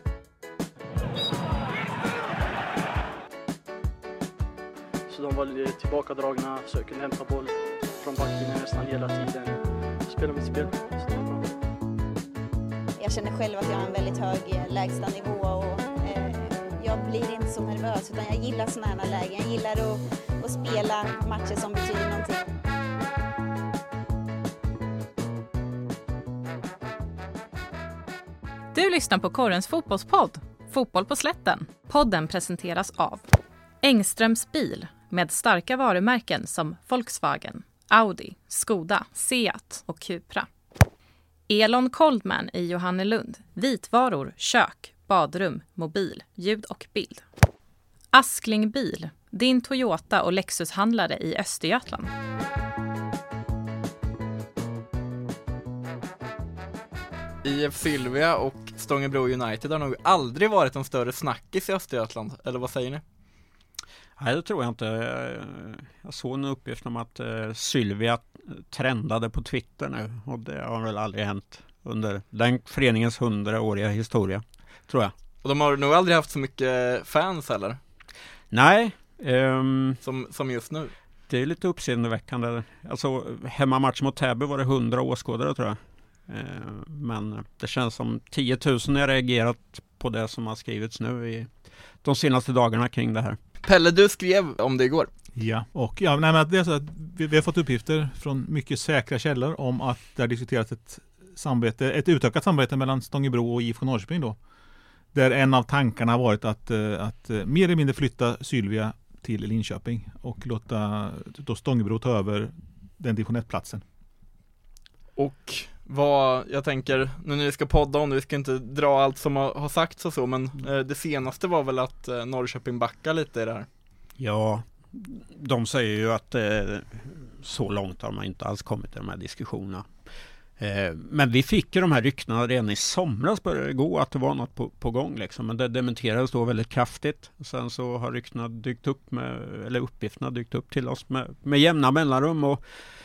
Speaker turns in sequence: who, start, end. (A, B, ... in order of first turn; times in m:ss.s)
0:05.1-0:11.5 A
0:13.0-0:22.4 B
0:28.7-0:33.2 C
0:33.8-0:40.5 C
0:41.5-0:47.2 C
0:48.1-0:52.1 C
0:57.4-1:03.0 D
1:04.2-1:15.1 E
1:15.4-1:17.8 D
1:18.5-1:20.0 E
1:20.0-1:20.9 D
1:21.3-1:33.4 E
1:33.6-1:35.1 D
1:35.4-1:44.4 F
1:45.1-1:53.8 F
1:55.2-2:03.7 D
2:04.2-2:09.9 E
2:10.6-2:22.6 E